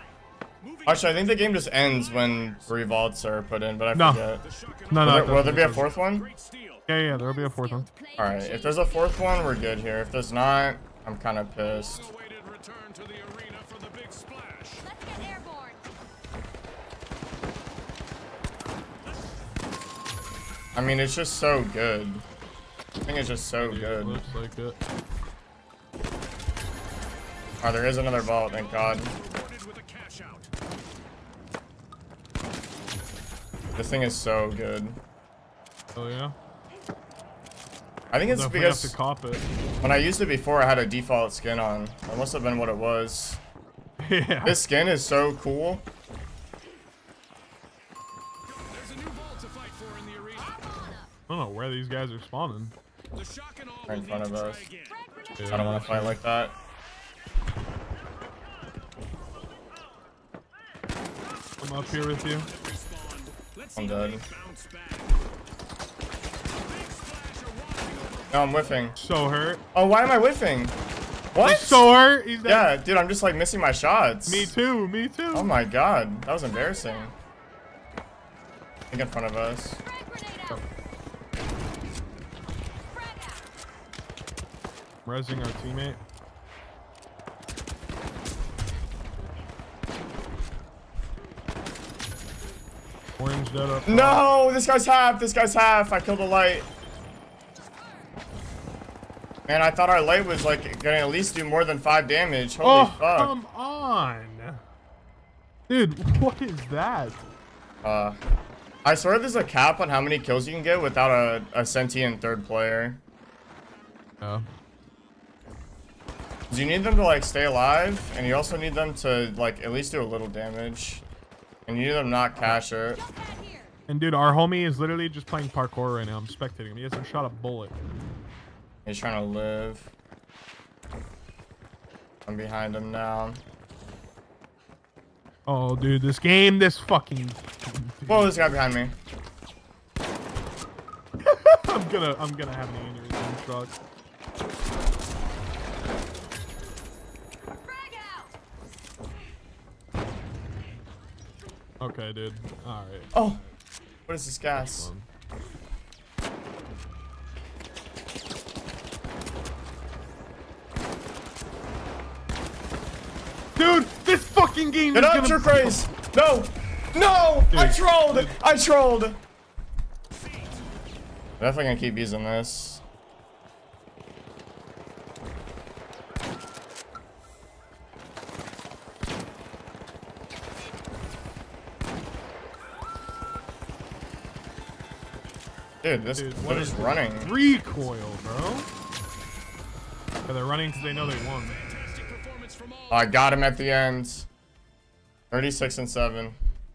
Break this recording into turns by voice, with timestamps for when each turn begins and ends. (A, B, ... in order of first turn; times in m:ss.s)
0:00.6-0:02.8 A
0:00.8-0:04.4 B
0:03.9-0:04.2 C
0:04.4-0:06.8 A
0:04.9-0:05.9 C
0:05.0-0:06.3 B
0:06.9-0:07.9 C
0:07.1-0:09.5 D
0:08.2-0:12.1 B
0:11.6-0:14.8 A
0:14.8-0:15.8 D
0:20.7-0:22.2 B
0:23.0-0:24.2 B
0:23.6-0:24.8 C
0:27.6-0:29.1 B
0:28.3-0:30.5 A
0:33.8-0:35.0 B
0:35.9-0:36.3 C
0:38.1-0:38.9 B
0:38.3-0:39.5 C
0:39.8-0:43.4 B
0:44.0-0:44.6 C
0:44.4-0:45.8 B
0:48.6-0:50.6 A
0:50.4-0:51.1 D
0:51.3-0:52.7 C
0:53.1-0:54.9 A
0:53.9-0:54.7 B
0:54.9-0:55.8 D
0:55.4-0:56.2 C
0:55.5-0:56.6 B
1:01.6-1:02.5 C
1:02.0-1:05.1 A
1:03.8-1:04.2 B
1:06.6-1:08.8 A
1:08.3-1:09.0 B
1:09.0-1:09.6 C
1:09.7-1:10.7 B
1:11.3-1:11.9 B
1:11.4-1:12.7 C
1:12.4-1:14.5 B
1:14.2-1:15.5 C
1:15.3-1:17.1 B
1:18.9-1:19.8 B
1:19.8-1:20.6 D
1:22.9-1:23.4 D
1:25.0-1:26.0 C
1:33.2-1:34.2 C
1:33.9-1:36.7 B
1:39.5-1:43.3 B
1:42.6-1:44.6 C
1:45.7-1:47.2 C
1:47.8-1:48.2 B
1:48.8-1:53.0 B
1:54.2-1:54.4 C
1:56.5-2:01.0 B
2:01.7-2:03.0 B
2:03.0-2:03.7 D
2:03.9-2:07.8 C
2:08.8-2:09.9 B
2:12.2-2:13.4 B
2:15.4-2:18.5 C
2:18.1-2:19.0 B
2:21.2-2:23.7 C
2:27.6-2:28.3 D
2:31.8-2:33.2 C
2:33.1-2:33.4 B
2:34.1-2:34.9 B
2:34.5-2:35.0 C
2:43.6-2:45.8 C
2:44.9-2:49.2 B
2:47.5-2:48.4 C
2:51.4-2:52.8 B
3:05.8-3:07.3 B
3:06.1-3:08.7 C
3:10.3-3:11.6 C
3:11.4-3:13.1 A
3:12.9-3:14.3 B
3:15.3-3:16.4 B